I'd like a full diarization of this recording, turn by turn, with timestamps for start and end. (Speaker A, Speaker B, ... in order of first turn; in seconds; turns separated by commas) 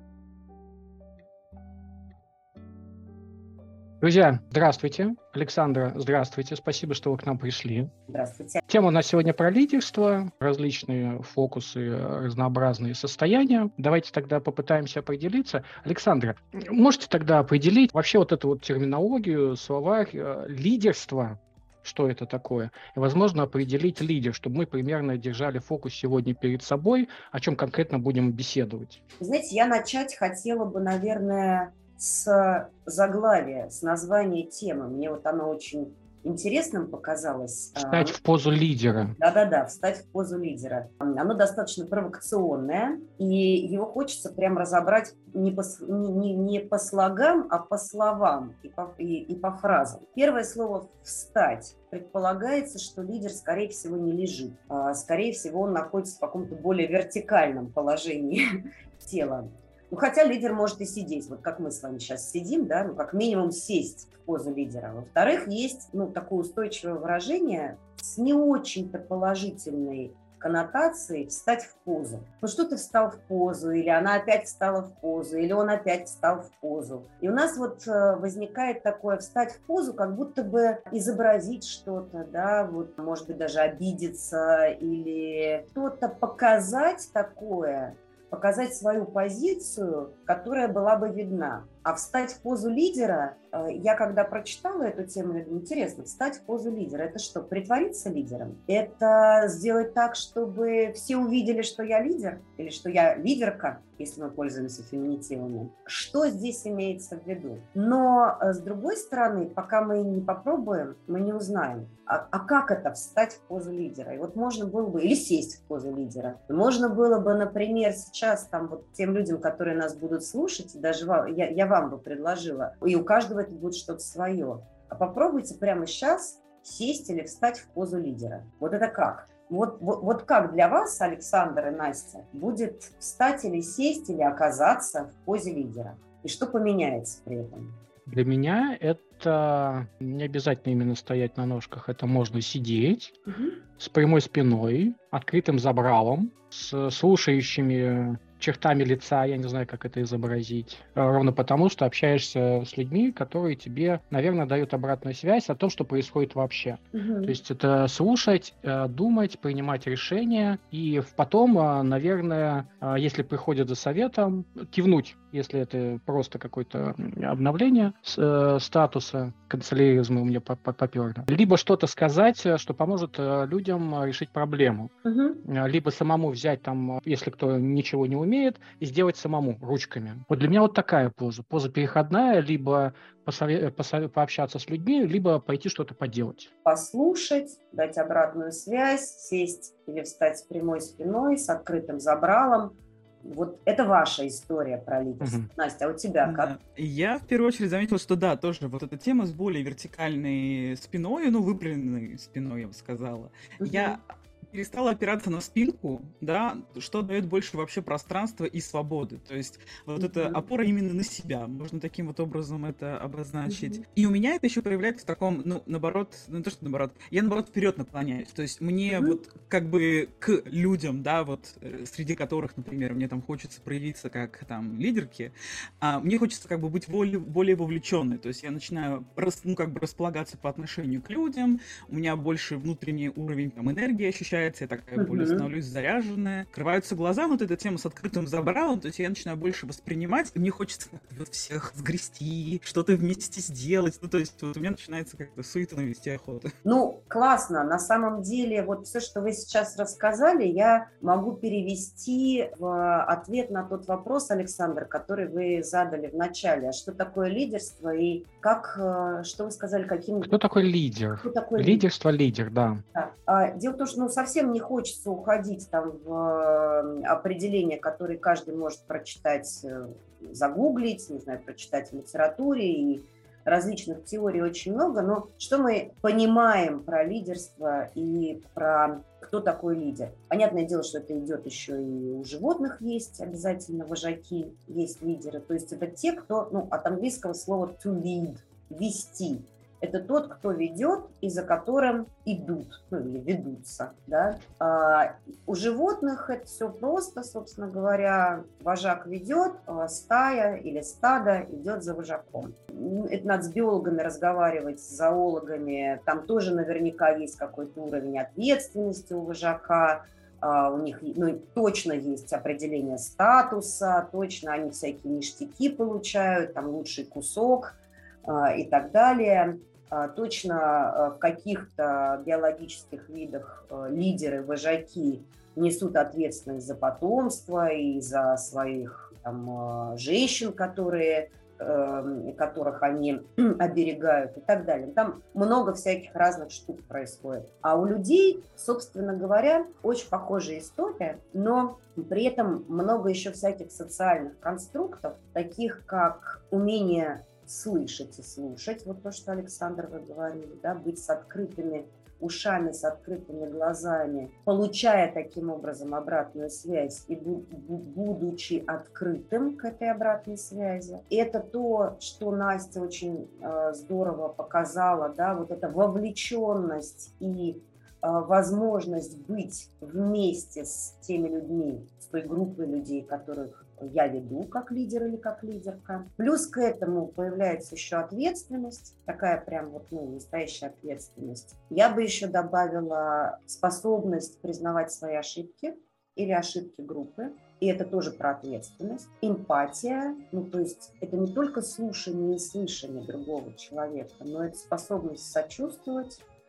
Speaker A: 4.0-7.9, Speaker B: 8.1-8.6, Speaker A: 8.7-29.0, Speaker B: 29.2-38.2, Speaker A: 37.8-39.1, Speaker B: 39.2-58.4, Speaker B: 59.0-137.8, Speaker A: 138.1-143.2, Speaker B: 143.3-143.6, Speaker A: 143.8-174.9, Speaker B: 156.9-157.4, Speaker B: 175.0-175.4, Speaker A: 175.4-186.5, Speaker B: 186.6-196.5, Speaker A: 195.2-195.5, Speaker C: 196.2-246.5, Speaker B: 203.6-204.0, Speaker B: 210.0-210.4, Speaker B: 213.5-213.8, Speaker B: 218.9-219.2, Speaker B: 235.0-235.5, Speaker B: 246.6-260.3, Speaker A: 260.2-262.8, Speaker B: 261.2-261.9, Speaker B: 262.9-396.2